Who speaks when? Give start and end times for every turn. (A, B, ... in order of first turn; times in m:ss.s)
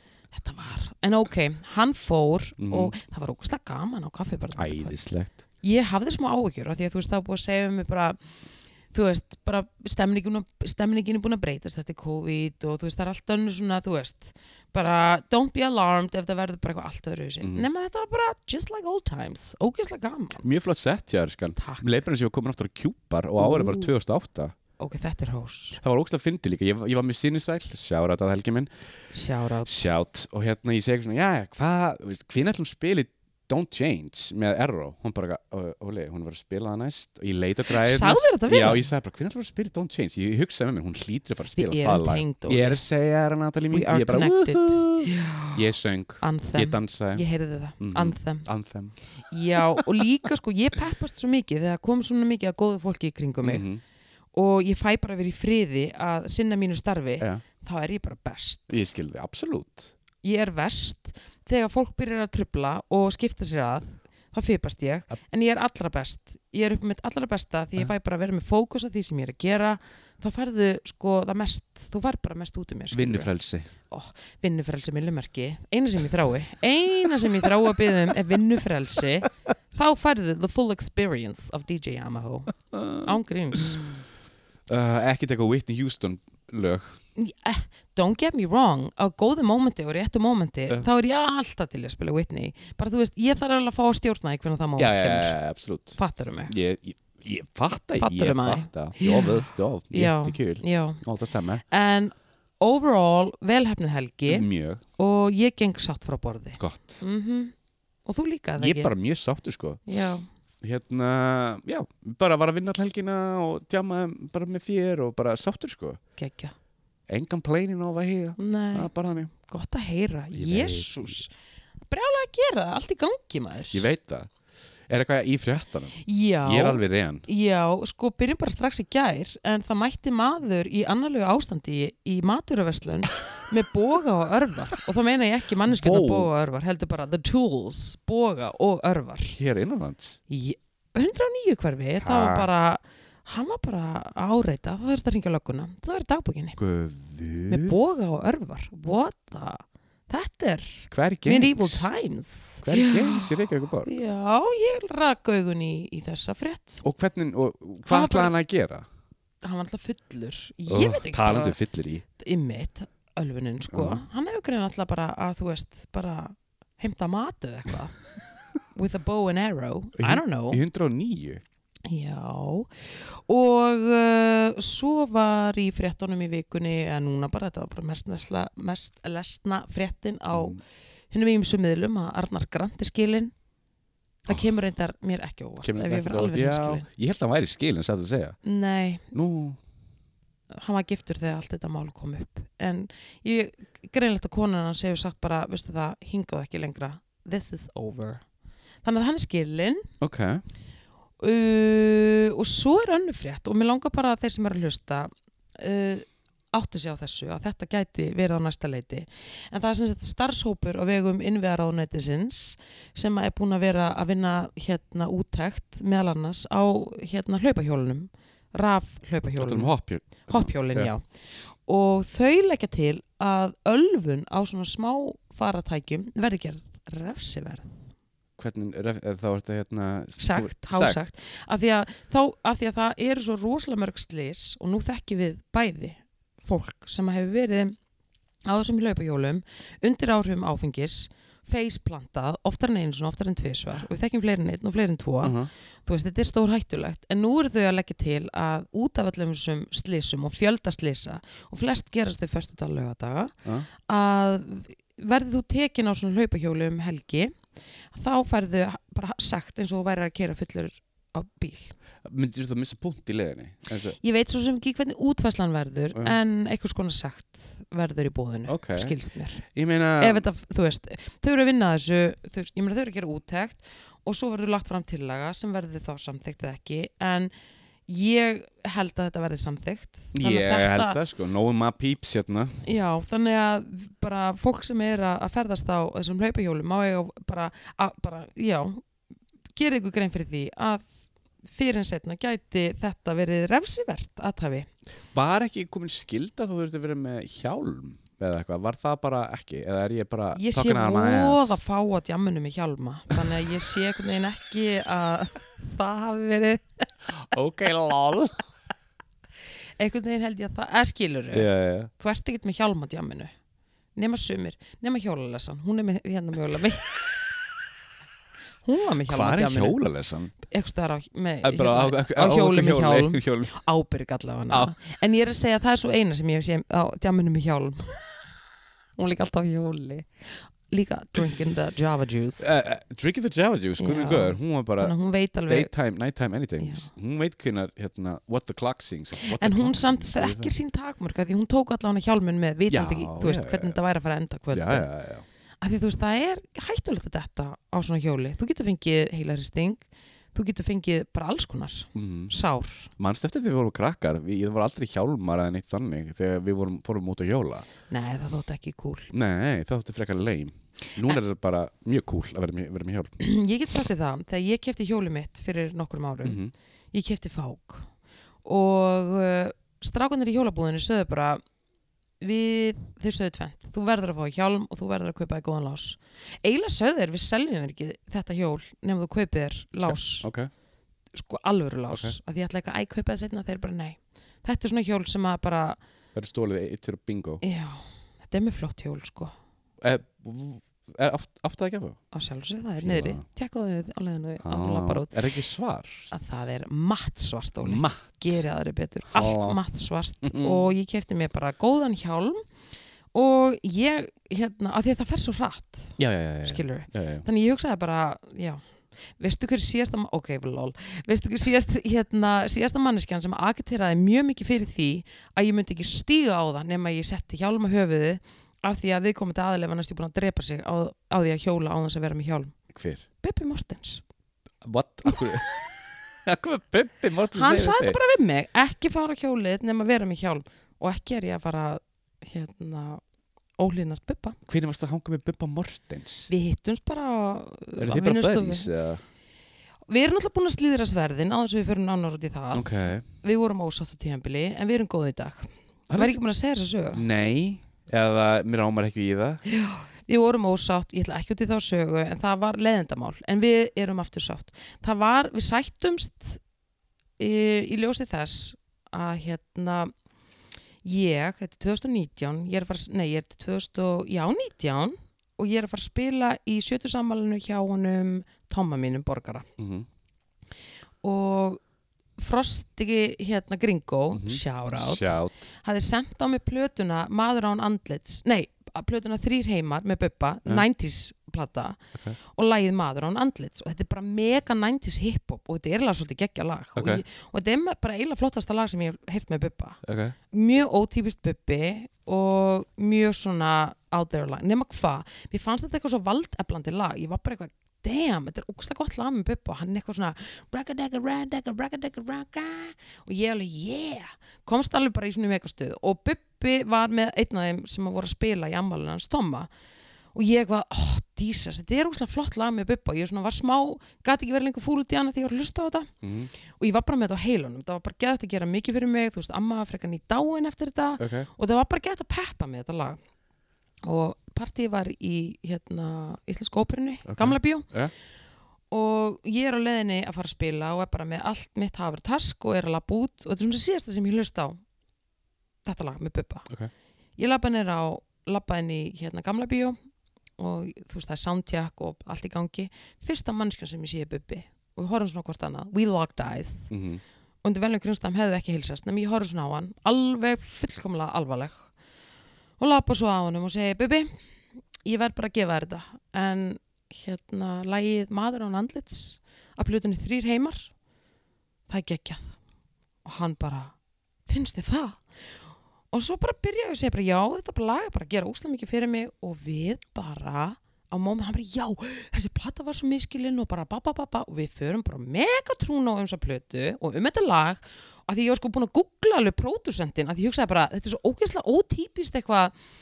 0:00.3-0:05.0 A
0:02.6-0:02.9 B
0:04.6-0:05.4 B
0:05.6-0:08.2 A
0:08.9-0:20.5 A
0:20.4-0:24.5 B
0:21.6-0:22.0 A
0:23.4-0:23.9 A
0:24.8-0:25.8 A
0:25.8-0:28.7 B
0:29.1-0:29.9 A
0:29.6-0:47.2 B
0:37.7-0:38.9 A
0:41.5-0:42.8 A
0:43.7-0:45.6 A
0:46.2-0:48.5 A
0:47.8-0:49.0 B
0:49.3-0:53.7 A
0:53.4-0:53.8 B
0:54.3-0:58.8 A
0:58.7-0:59.9 B
1:00.2-1:13.3 A
1:12.9-1:13.7 B
1:13.9-1:24.0 A
1:22.7-1:23.9 B
1:24.7-1:27.0 B
1:27.2-1:35.4 A
1:34.8-1:36.0 B
1:36.0-1:36.5 A
1:36.5-1:41.6 B
1:38.0-1:41.0 A
1:41.7-1:44.5 A
1:44.3-1:44.8 B
1:45.0-1:47.5 A
1:46.6-1:47.0 B
1:48.0-1:48.9 A
1:48.6-1:49.8 B
1:49.9-1:50.2 A
1:50.6-1:56.0 B
1:56.2-1:56.5 A
1:57.1-1:59.3 B
1:58.4-2:01.3 A
2:00.3-2:01.2 B
2:01.9-2:03.8 A
2:03.7-2:04.3 B
2:04.9-2:07.2 B
2:06.0-2:19.4 A
2:15.6-2:16.3 B
2:19.3-2:20.2 B
2:20.3-2:26.6 A
2:22.0-2:22.5 B
2:26.6-2:27.8 B
2:27.5-2:33.3 A
2:30.9-2:31.9 B
2:32.6-2:33.9 B
2:33.8-2:36.8 A
2:36.8-2:38.8 B
2:37.8-2:38.3 A
2:39.4-2:41.6 A
2:40.7-2:42.0 B
2:42.2-2:48.0 A
2:43.7-2:44.0 B
2:48.7-2:50.6 A
2:50.0-2:51.4 B
2:51.9-3:00.6 A
3:00.3-3:00.6 B
3:01.1-3:03.3 A
3:04.2-3:06.8 A
3:05.6-3:08.4 B
3:08.4-3:09.1 A
3:09.1-3:09.6 B
3:10.5-3:18.2 A
3:18.8-3:19.9 A
3:20.0-3:20.4 B
3:21.2-3:39.8 A
3:39.4-3:40.9 B
3:40.3-3:47.8 A
3:48.4-3:51.0 B
3:50.2-3:57.8 A
3:58.5-4:17.4 A
4:05.2-4:05.5 B
4:17.9-4:21.8 A
4:22.0-4:24.0 B
4:24.0-4:29.4 A
4:28.5-4:30.3 B
4:30.0-4:37.3 A
4:37.9-4:41.0 A
4:40.1-4:42.6 B
4:42.6-4:48.8 A
4:49.6-4:50.9 A
4:51.5-4:54.7 A
4:55.1-5:01.6 B
5:00.3-5:06.8 A
5:07.2-5:08.4 B
5:09.8-5:13.3 A
5:11.3-5:11.9 B
5:14.0-5:16.9 A
5:18.6-5:19.8 A
5:19.1-5:20.3 B
5:20.4-5:28.2 A
5:21.4-5:23.5 B
5:29.0-5:32.5 A
5:32.4-5:35.0 B
5:33.8-5:35.7 A
5:35.5-5:40.5 B
5:36.6-5:36.9 A
5:39.2-5:44.9 A
5:42.7-5:43.8 B
5:44.5-5:45.2 B
5:45.6-5:52.9 A
5:52.0-5:52.3 B
5:53.0-5:57.7 B
5:57.9-5:59.1 A
5:59.1-6:03.1 B
6:03.2-6:06.4 A
6:06.2-6:06.5 B
6:06.9-6:07.9 A
6:08.4-6:11.4 A
6:12.2-6:20.3 A
6:19.8-6:20.5 B
6:21.1-6:25.8 A
6:21.9-6:22.2 B
6:26.2-6:27.4 B
6:27.4-6:29.3 A
6:29.8-6:32.0 B
6:32.1-6:35.1 A
6:32.8-6:33.2 B
6:34.4-6:36.1 B
6:36.1-6:42.4 A
6:37.6-6:38.3 B
6:39.1-6:39.6 B
6:40.2-6:40.6 B
6:43.1-6:48.6 A
6:46.0-6:47.2 B
6:49.2-7:02.6 A
7:02.7-7:03.0 B
7:03.2-7:04.0 A
7:04.6-7:05.5 B
7:06.2-7:08.0 B
7:07.3-7:13.0 A
7:13.6-7:14.4 A
7:14.5-7:16.3 B
7:16.3-7:18.7 A
7:17.8-7:19.0 B
7:19.9-7:27.0 A
7:22.5-7:23.0 B
7:25.9-7:26.2 B
7:26.9-7:29.4 B
7:29.5-7:36.4 A
7:37.2-7:39.9 A
7:40.8-7:49.5 A
7:49.6-7:49.9 B
7:51.0-7:51.6 A
7:52.2-8:09.8 A
7:54.1-7:55.5 B
8:06.8-8:07.0 B
8:09.8-8:10.2 B
8:10.3-8:29.5 A
8:30.1-8:35.9 A
8:36.0-8:36.3 B
8:36.5-8:43.0 A
8:41.0-8:41.3 B
8:43.8-8:47.7 A
8:47.0-8:47.9 B
8:48.7-8:54.6 A
8:55.6-8:56.5 A
8:57.2-8:59.8 A
9:00.4-9:06.7 A
9:06.7-9:07.0 B
9:07.4-9:11.7 A
9:12.6-9:14.2 A
9:14.8-9:20.7 A
9:21.7-9:22.4 A
9:23.0-9:23.8 A
9:24.3-9:25.0 A
9:25.9-9:42.5 A